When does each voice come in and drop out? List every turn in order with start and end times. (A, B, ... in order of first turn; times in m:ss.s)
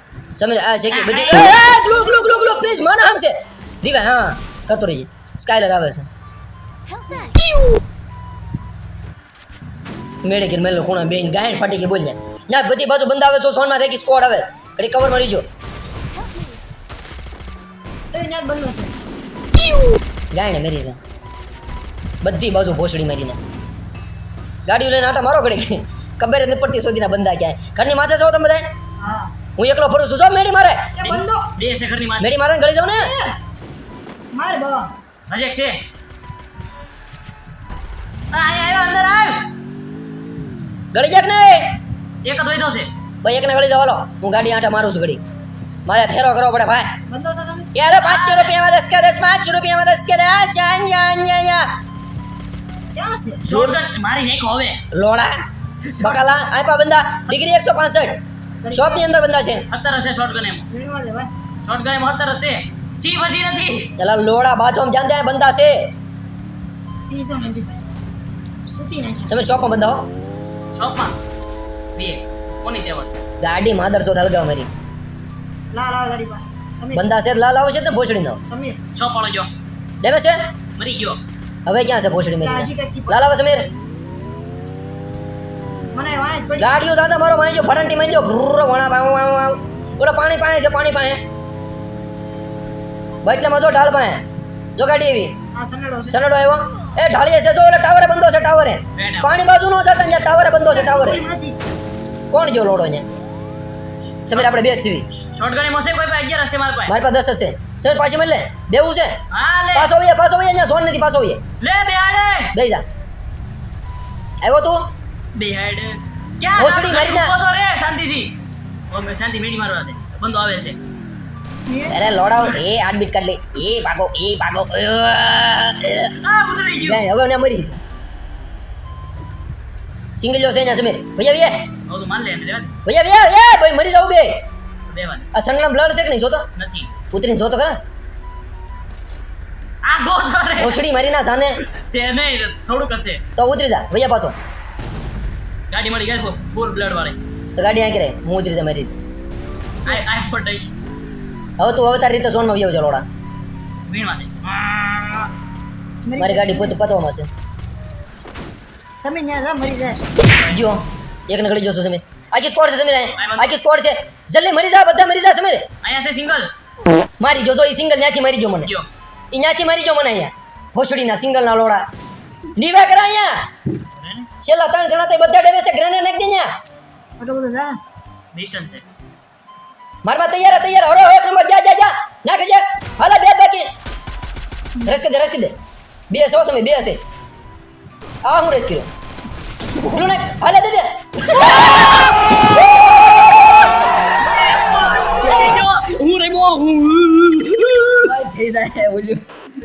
0:00.4-0:06.1 A
0:00.9-0:01.6 B
0:01.7-0:02.7 C
0:06.9-0:07.4 C
0:10.2-0:15.4 A
0:16.1-0:16.6 C
0:18.1-0:18.9 D
0:20.3-0:21.0 A
0:22.2-0:23.4 A
0:24.7-0:28.6 A
0:29.0-0:29.3 D
0:29.6-0:31.1 A
0:30.9-0:31.5 D
0:31.6-0:32.3 B
0:32.2-0:33.1 A
0:32.8-0:33.4 D
0:34.3-0:34.9 D
0:35.3-0:35.8 B
0:38.3-0:39.4 B
0:40.9-0:41.7 A
0:42.2-0:42.9 B
0:43.2-0:45.2 A
0:45.8-0:46.9 A
0:47.1-0:47.7 D
0:47.7-0:51.7 A
0:47.9-0:48.6 B
0:52.9-0:53.4 D
0:53.4-0:54.8 B
0:53.5-0:53.8 A
0:54.9-0:55.4 A
0:55.9-0:58.2 A
0:56.0-0:56.4 D
0:58.6-0:59.1 D
0:58.7-0:59.6 A
0:59.7-1:00.7 B
1:00.7-1:01.3 D
1:01.6-1:03.9 B
1:04.0-1:05.9 A
1:07.1-1:07.8 D
1:08.6-1:09.4 D
1:09.3-1:10.1 A
1:10.7-1:11.1 B
1:12.0-1:13.2 B
1:13.4-1:14.7 A
1:15.7-1:17.1 D
1:16.9-1:18.4 A
1:18.4-1:18.8 D
1:18.9-1:19.5 B
1:20.0-1:20.4 A
1:20.8-1:21.2 B
1:21.6-1:23.7 A
1:22.4-1:23.3 D
1:25.9-1:26.7 D
1:26.6-1:31.2 A
1:33.2-1:34.2 A
1:34.8-1:35.3 A
1:35.6-1:36.2 D
1:36.1-1:41.2 A
1:39.0-1:39.3 B
1:40.7-1:41.6 D
1:42.3-1:43.0 A
1:44.3-1:45.0 A
1:44.3-1:44.5 B
1:45.1-1:46.9 B
1:46.9-1:49.2 A
1:49.3-1:49.9 B
1:49.7-1:51.4 A
1:51.6-1:52.5 B
1:52.5-1:52.8 A
1:54.4-1:54.9 A
1:55.3-1:58.3 B
1:56.6-1:57.3 A
1:58.9-2:00.8 B
2:01.6-2:02.0 D
2:01.9-2:06.2 A
2:06.2-2:07.0 B
2:06.8-2:07.8 A
2:10.2-2:11.6 A
2:11.9-2:12.8 B
2:12.8-2:14.4 A
2:14.9-2:15.3 B
2:15.3-2:16.4 A
2:16.6-2:16.9 B
2:17.1-2:17.8 A
2:19.8-2:20.8 B
2:20.6-2:21.6 A
2:21.6-2:23.2 B
2:23.4-2:24.4 A
2:25.7-2:27.2 B
2:27.6-2:28.9 A
2:29.8-2:30.7 B
2:31.6-2:33.0 A
2:33.9-2:35.3 B
2:36.0-2:36.8 D
2:36.2-2:37.3 A
2:39.0-2:40.1 D
2:40.5-2:45.7 A
2:43.2-2:43.5 B
2:45.8-2:46.5 B
2:47.2-2:48.7 A
2:49.3-2:51.8 A
2:52.6-2:53.4 A
2:54.0-2:54.3 B
2:54.4-2:56.5 A
2:57.2-2:57.8 D
2:58.3-2:58.8 B
3:00.0-3:03.7 A
3:04.8-3:05.5 A
3:06.1-3:07.0 A
3:08.2-3:08.9 A
3:09.8-3:12.1 A
3:11.4-3:12.1 B
3:14.0-3:18.1 B
3:18.0-3:19.2 A